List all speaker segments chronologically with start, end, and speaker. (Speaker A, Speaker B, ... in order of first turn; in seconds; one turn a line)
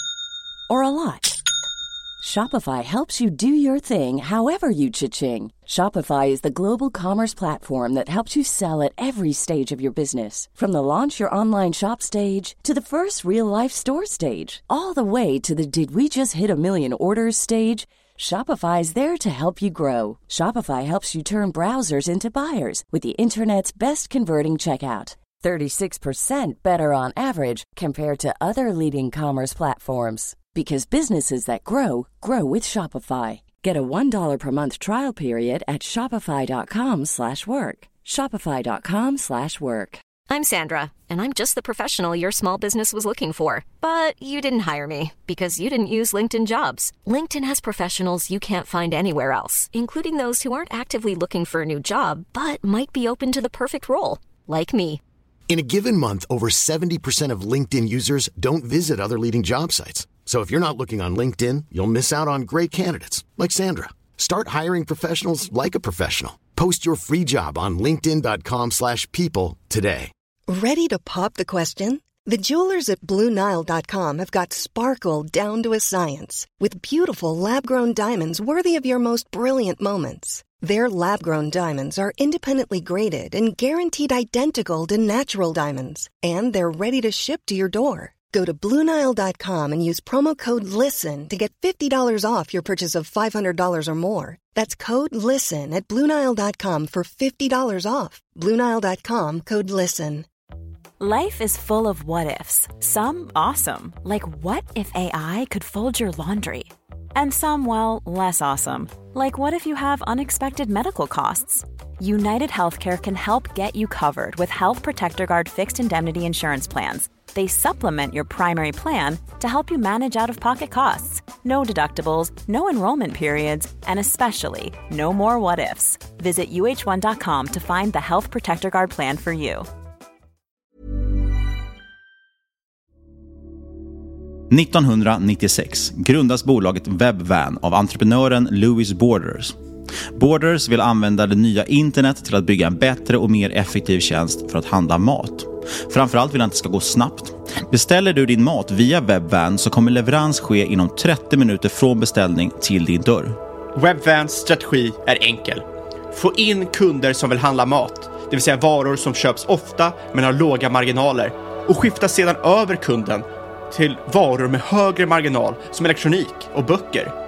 Speaker A: 0.7-1.4
Speaker A: 2.2-40.0
Speaker B: 40.3-55.0
Speaker C: 55.5-70.1
Speaker D: 70.5-100.2
Speaker E: 101.0-129.7
Speaker F: 134.5-139.6
Speaker F: 140.1-153.4
Speaker G: 153.7-167.1